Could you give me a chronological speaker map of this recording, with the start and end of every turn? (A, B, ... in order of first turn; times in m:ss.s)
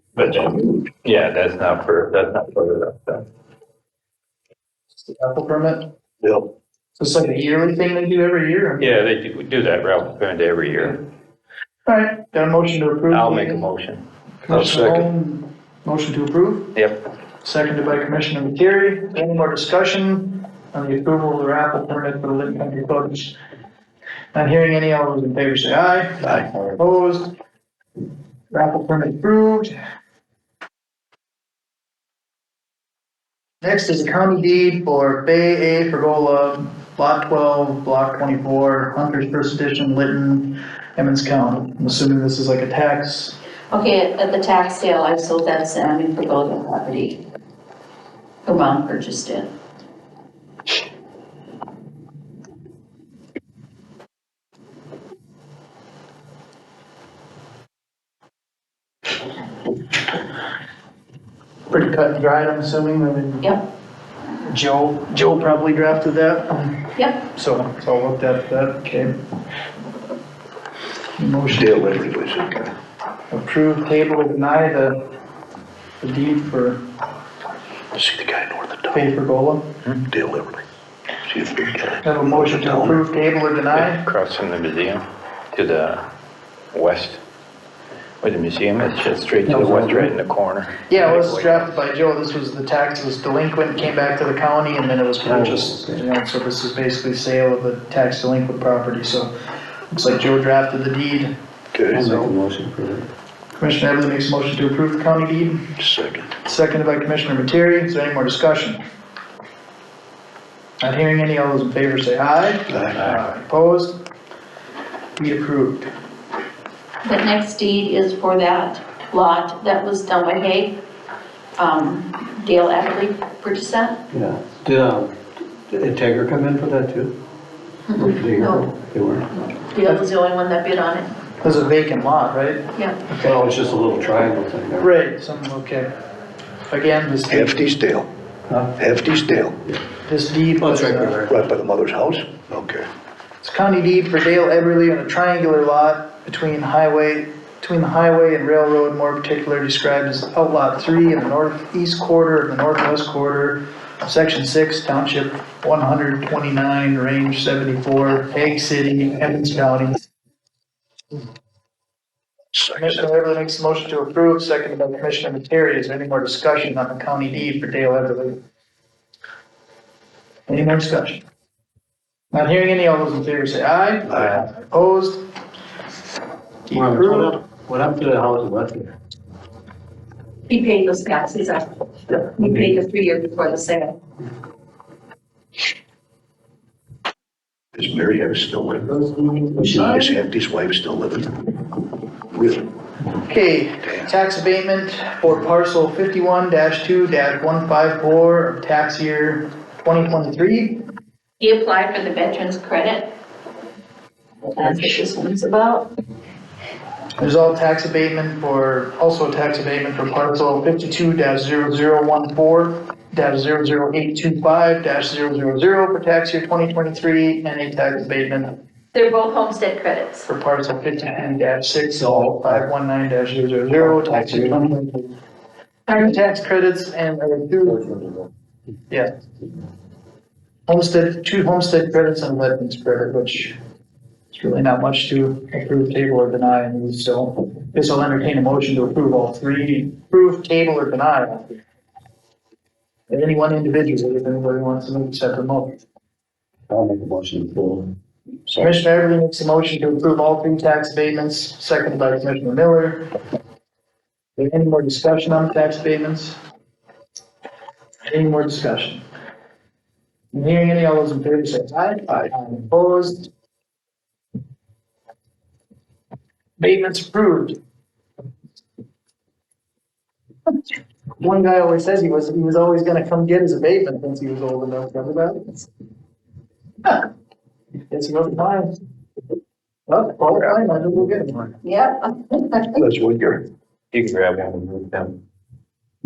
0:00.2-0:03.2 A
0:00.2-0:00.8 B
0:05.0-0:05.9 C
0:06.2-0:06.5 B
0:07.0-0:09.0 C
0:08.8-0:11.0 A
0:11.8-0:13.6 C
0:13.1-0:14.0 A
0:14.5-0:16.7 C
0:14.5-0:15.0 B
0:16.7-0:17.0 A
0:17.4-0:23.4 C
0:24.3-0:27.3 C
0:28.5-0:29.7 C
0:33.6-0:43.4 C
0:43.7-0:47.2 D
0:48.4-0:49.5 D
1:01.7-1:03.5 C
1:04.4-1:09.1 C
1:06.9-1:07.2 D
1:11.2-1:12.0 C
1:11.5-1:12.7 B
1:13.3-1:15.0 C
1:16.0-1:16.8 C
1:17.9-1:19.1 B
1:18.9-1:19.7 C
1:20.1-1:20.6 B
1:21.2-1:23.0 B
1:22.0-1:24.0 C
1:23.7-1:26.0 A
1:26.7-1:27.2 A
1:28.2-1:30.8 A
1:29.4-1:30.1 E
1:30.9-1:39.3 C
1:31.0-1:31.6 E
1:35.2-1:36.0 E
1:39.9-1:41.3 C
1:41.7-1:42.0 B
1:41.9-1:43.1 E
1:42.0-1:42.3 C
1:43.6-1:45.7 C
1:45.8-1:46.3 B
1:46.4-1:48.8 C
1:50.8-1:54.0 C
1:52.7-1:53.1 B
1:55.2-1:55.9 C
1:57.0-2:00.8 D
2:01.6-2:04.0 D
2:04.1-2:05.2 E
2:05.7-2:07.2 E
2:07.9-2:08.7 D
2:07.9-2:09.3 E
2:09.4-2:11.1 D
2:11.4-2:13.5 C
2:12.7-2:13.1 D
2:13.2-2:14.9 E
2:14.8-2:15.9 C
2:16.7-2:17.6 C
2:17.3-2:18.1 B
2:18.5-2:18.8 E
2:18.8-2:19.6 B
2:20.0-2:21.2 C
2:20.6-2:21.4 E
2:21.3-2:22.9 B
2:23.4-2:40.0 C
2:42.5-2:43.0 B
2:42.8-2:48.4 C
2:50.5-2:51.2 C
2:52.3-2:55.2 C
2:54.1-2:54.4 B
2:56.7-2:57.4 C
2:56.7-2:58.9 E
3:00.5-3:04.0 D
3:07.7-3:09.0 B
3:09.0-3:10.0 E
3:09.6-3:11.4 B
3:09.8-3:10.1 C
3:12.3-3:12.7 B
3:13.2-3:20.8 C
3:13.8-3:14.1 B
3:21.4-3:23.1 D
3:24.6-3:25.9 D
3:27.2-3:38.5 C
3:38.9-3:40.3 D
3:40.3-3:45.1 C
3:43.9-3:44.6 E
3:45.9-3:46.2 D
3:45.9-3:47.9 C
3:50.7-3:53.6 C
3:54.3-4:01.4 C
4:03.1-4:05.8 C
4:06.7-4:07.9 E
4:08.6-4:13.0 C
4:14.4-4:16.4 C
4:18.0-4:19.0 C
4:20.3-4:23.3 C
4:26.6-4:27.6 C
4:31.2-4:35.7 C
4:37.9-4:38.7 C
4:39.9-4:41.4 C
4:41.6-4:42.8 D
4:42.7-4:43.4 B
4:43.9-4:45.2 A